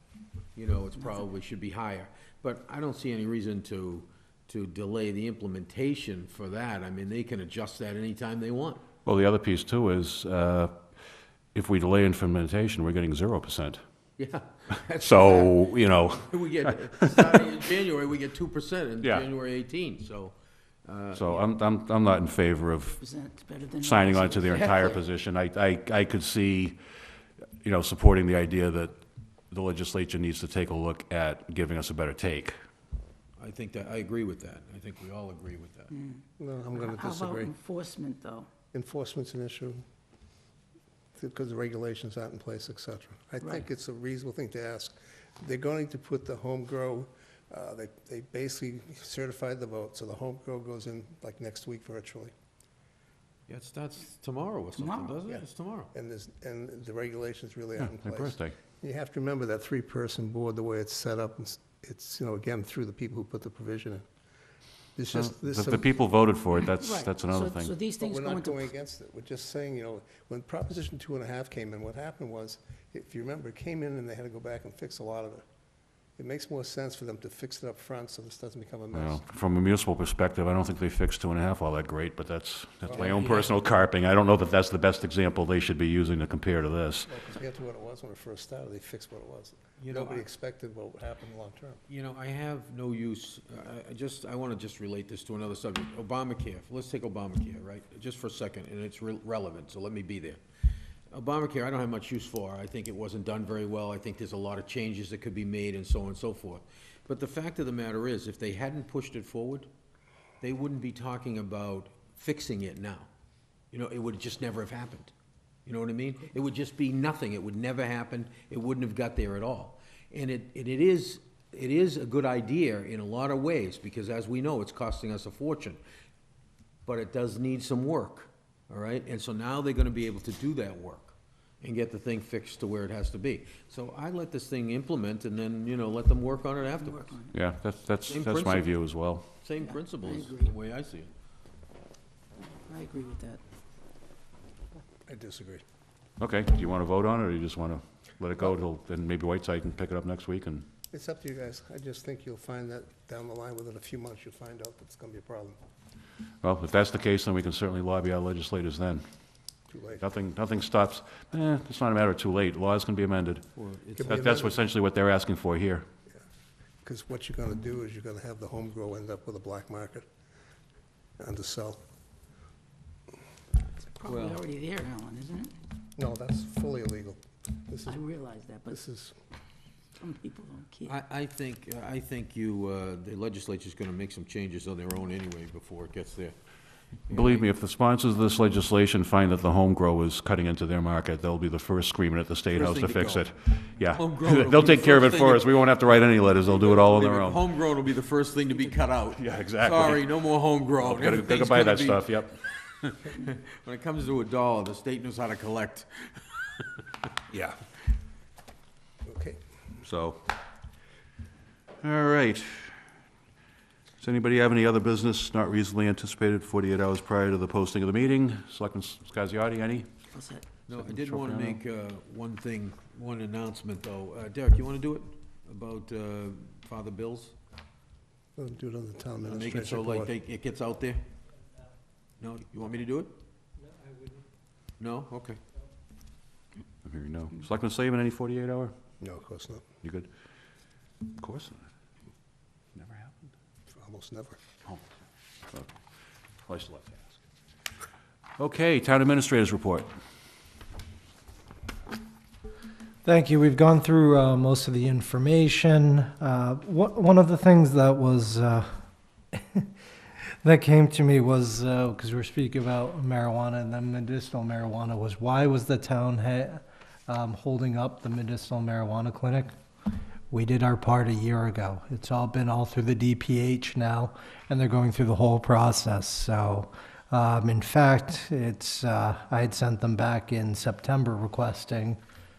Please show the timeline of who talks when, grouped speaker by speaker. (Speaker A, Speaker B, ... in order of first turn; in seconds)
Speaker A: 0.5-8.8, 14.2-15.6, 16.1-20.3, 20.9-21.4, 33.4-36.0, 53.5-55.9, 82.9-83.5, 89.8-90.2, 91.9-100.4, 101.1-109.7, 110.4-113.1, 113.7-115.1, 115.7-125.8, 126.9-137.2, 138.1-138.7, 139.4-141.1, 163.6-164.2, 174.1-174.4, 180.9-186.3, 187.1-187.5, 192.5-193.3, 193.9-195.6, 196.4-202.2, 202.8-206.2, 220.7-227.3, 229.3-231.0, 232.2-233.1, 234.8-235.4
Speaker B: 9.1-10.8, 11.5-13.8, 15.0-16.3, 19.0-19.3, 21.1-23.0, 23.8-26.8, 27.6-32.5, 57.8-58.5, 65.1-67.8, 78.9-87.1, 137.3-139.3, 146.2-150.7, 156.4-159.0, 160.0-163.5, 164.0-165.9, 187.1-197.4, 199.2-200.0, 200.8-202.3, 209.8-210.2, 211.8-212.8, 214.0-219.9, 220.8-221.6, 236.8-238.7, 239.8-240.1, 241.2-241.7, 242.8-243.3, 246.4-247.2, 248.4-249.9
Speaker C: 22.9-25.0, 35.9-36.2, 36.7-38.5, 54.8-55.1, 66.7-68.7, 136.9-137.4, 139.6-140.5, 142.5-143.4, 174.0-175.5, 177.9-178.8, 180.0-180.9, 220.1-220.5
Speaker D: 36.4-37.5, 38.7-39.8, 41.2-52.3, 55.3-64.0, 65.0-65.9, 68.0-75.4, 76.2-79.2, 82.9-83.2, 87.0-91.8, 145.1-145.6, 150.9-155.6, 159.7-160.1, 164.0-164.6, 166.8-170.1, 171.2-171.8, 176.0-178.0, 178.7-179.2, 209.1-209.4, 228.4-230.1, 239.0-239.7, 243.7-244.4
Speaker E: 253.0-258.8, 259.3-259.7, 260.4-269.5, 270.3-282.0